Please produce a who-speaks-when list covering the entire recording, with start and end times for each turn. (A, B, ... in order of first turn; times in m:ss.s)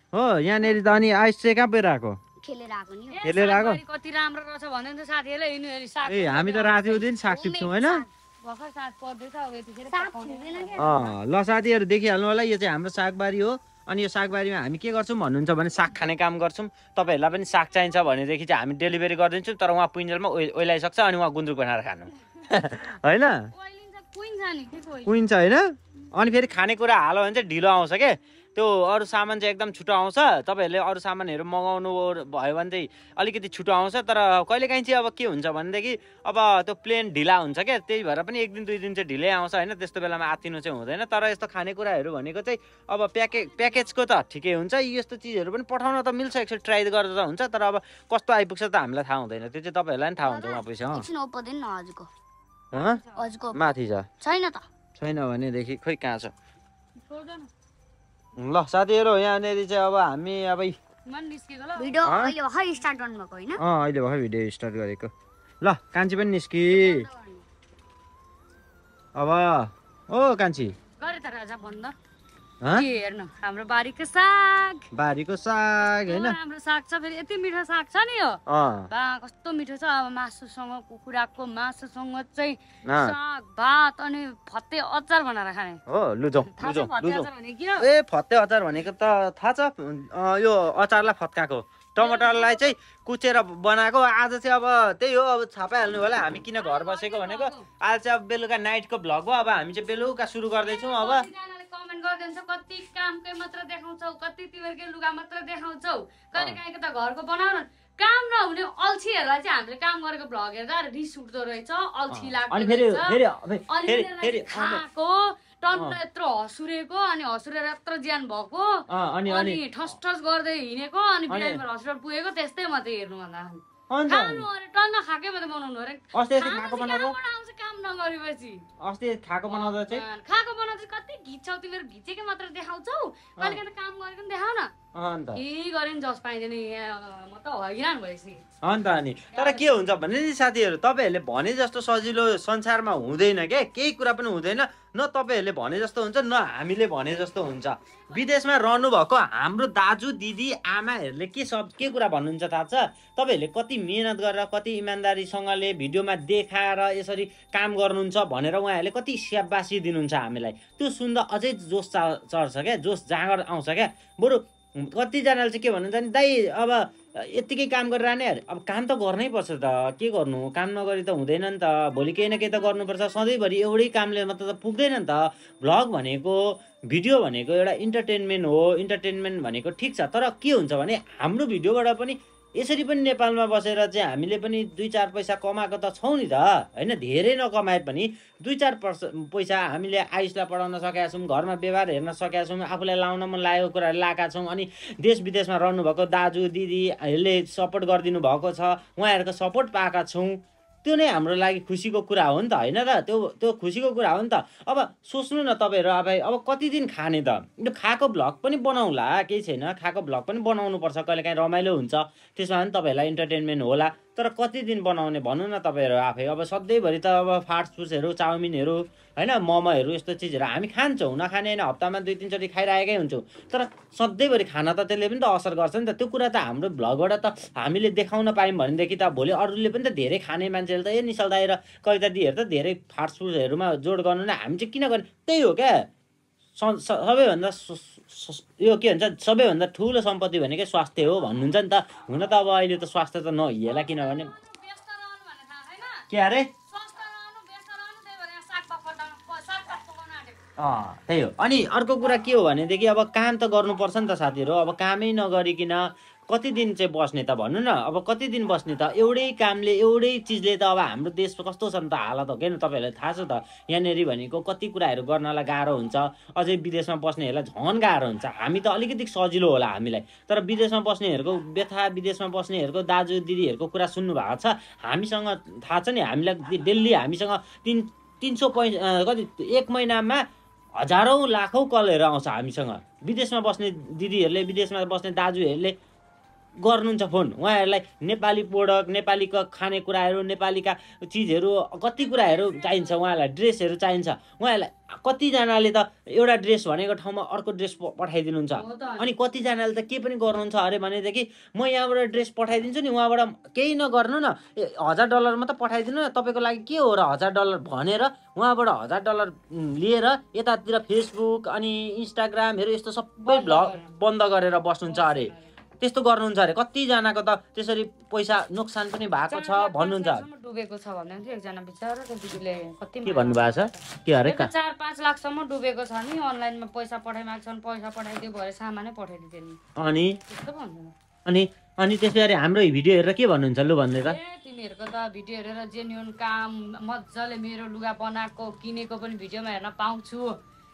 0:00.1-0:02.2 A
0:02.4-0:03.2 B
0:03.1-0:07.0 C
0:03.2-0:03.8 A
0:06.1-0:08.0 A
0:07.3-0:08.1 B
0:08.4-0:11.0 C
0:09.9-0:11.1 B
0:10.8-0:23.5 A
0:23.5-0:25.2 C
0:25.1-0:51.1 A
0:50.2-0:52.1 B
0:52.7-0:54.1 A
0:52.7-0:53.2 C
0:53.2-0:53.6 B
0:54.2-0:54.7 B
0:55.0-0:56.3 A
0:57.0-0:57.5 C
0:58.4-1:00.8 A
1:01.1-1:02.0 C
1:01.8-1:03.6 B
1:02.0-1:02.4 A
1:03.6-1:07.1 A
1:06.7-1:07.4 B
1:09.2-1:10.8 A
1:11.0-1:12.0 C
1:12.6-1:12.9 A
1:12.7-1:14.9 C
1:14.9-1:16.4 A
1:15.8-1:25.8 C
1:18.5-1:18.9 A
1:22.9-1:23.2 A
1:25.9-1:41.3 A
1:26.6-1:27.9 C
1:32.0-1:32.6 C
1:36.6-1:37.7 C
1:40.6-2:08.6 C
1:52.1-1:54.8 A
1:55.7-1:56.0 A
1:58.9-1:59.6 A
2:01.3-2:01.6 A
2:03.9-2:04.4 A
2:06.1-2:07.2 A
2:08.8-2:10.0 A
2:09.5-2:14.7 C
2:14.9-2:15.4 A
2:15.4-2:18.4 C
2:18.6-3:55.9 A
2:19.3-2:19.8 C
3:56.6-4:04.3 A
4:03.7-4:06.1 C
4:06.1-4:06.5 A
4:06.7-4:10.4 C
4:10.6-4:40.2 A
4:40.8-4:45.8 A
4:46.6-5:20.3 A
4:52.0-4:53.0 C
4:58.6-4:59.1 C
5:13.2-5:13.9 C
5:14.9-5:15.5 C
5:19.3-5:29.6 C
5:23.0-5:24.5 A
5:29.8-5:30.2 A
5:30.3-5:30.9 C
5:31.3-5:34.2 A
5:34.0-5:40.3 C